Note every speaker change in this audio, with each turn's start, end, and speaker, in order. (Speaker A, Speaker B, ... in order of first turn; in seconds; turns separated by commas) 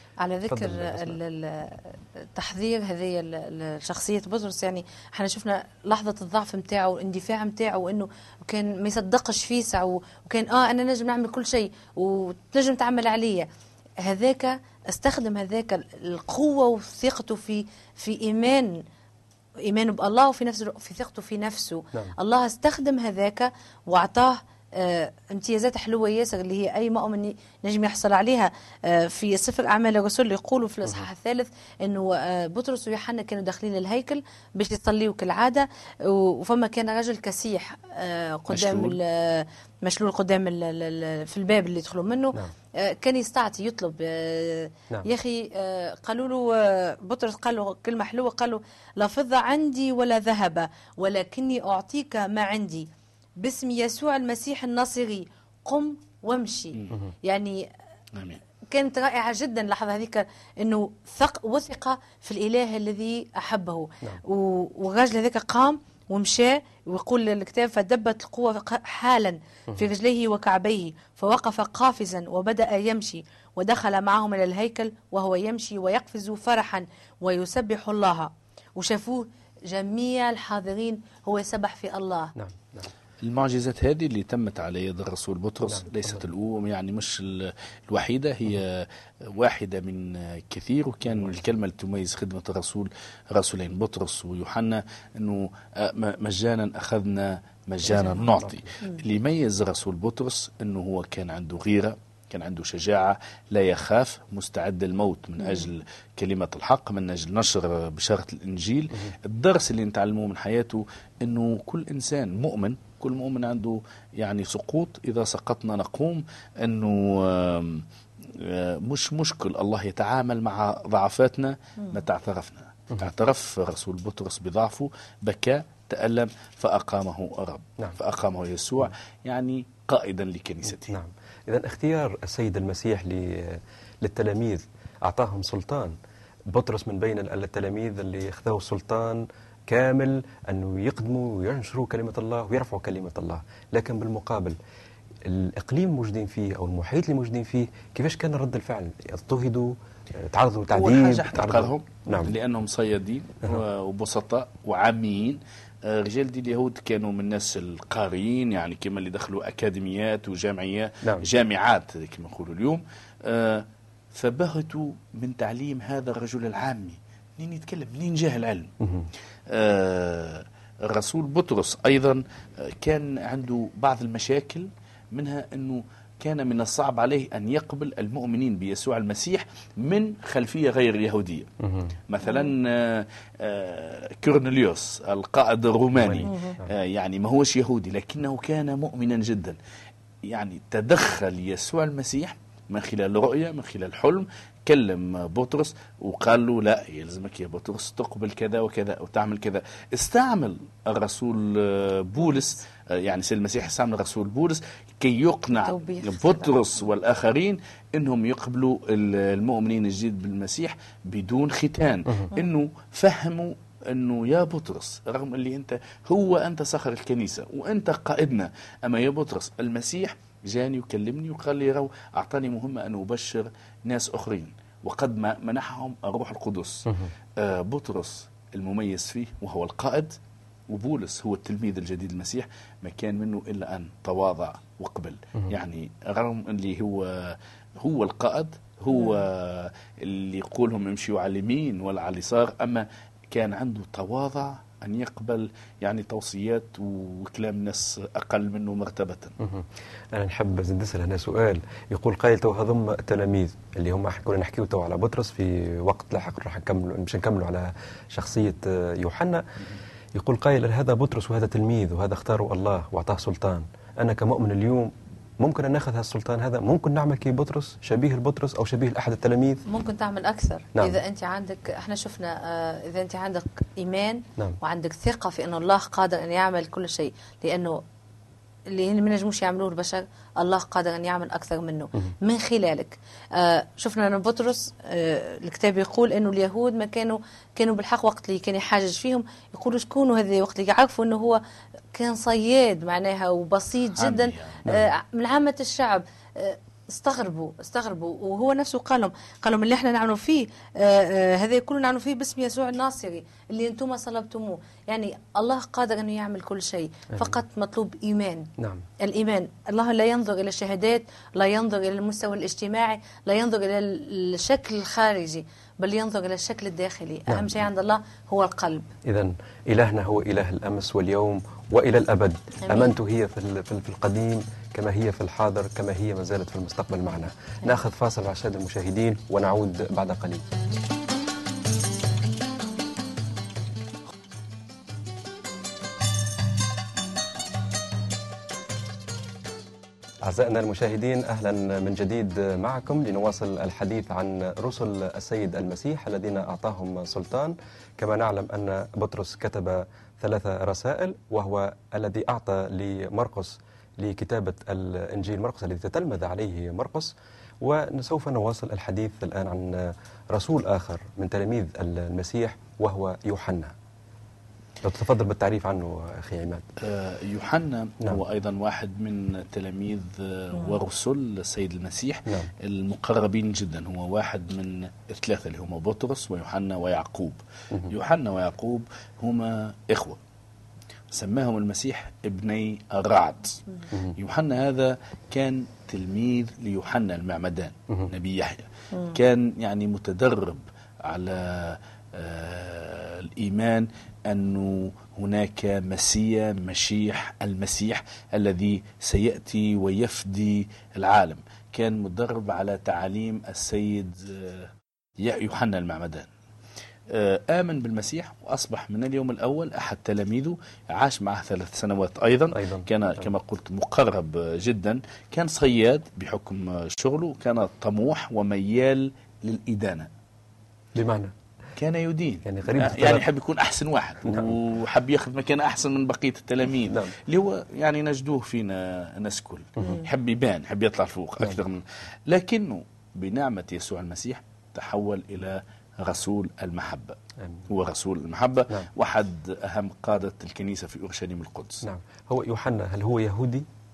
Speaker A: 0.2-13.5, Speaker B: 0.5-1.2, Speaker A: 14.0-18.8, Speaker A: 19.6-52.9, Speaker C: 38.5-39.0, Speaker A: 53.4-57.7, Speaker C: 58.1-58.4, Speaker A: 58.7-82.3, Speaker B: 82.3-82.9, Speaker C: 83.2-130.9, Speaker B: 97.8-98.7, Speaker B: 130.9-135.9, Speaker B: 136.5-144.6, Speaker B: 145.2-152.3, Speaker C: 150.7-168.7, Speaker B: 168.8-169.1, Speaker C: 169.5-181.5, Speaker B: 181.6-181.9, Speaker C: 182.1-189.6, Speaker A: 182.2-182.5, Speaker B: 186.0-186.7, Speaker A: 186.2-186.6, Speaker C: 190.3-230.1, Speaker A: 205.6-206.5, Speaker C: 230.7-249.3, Speaker B: 249.4-259.4, Speaker B: 260.2-269.6, Speaker A: 269.6-277.8, Speaker A: 278.7-291.4, Speaker A: 291.9-318.9, Speaker C: 293.9-294.6, Speaker B: 308.6-308.9, Speaker B: 317.3-317.5, Speaker B: 319.0-330.4, Speaker A: 322.6-322.9, Speaker B: 340.2-363.7, Speaker B: 364.8-366.6, Speaker C: 366.8-380.2, Speaker C: 381.1-406.3, Speaker C: 407.1-420.1, Speaker B: 412.5-413.3, Speaker B: 420.9-421.3, Speaker C: 421.8-441.8, Speaker B: 422.4-423.3, Speaker B: 424.3-424.5, Speaker B: 437.4-437.7, Speaker B: 441.8-443.7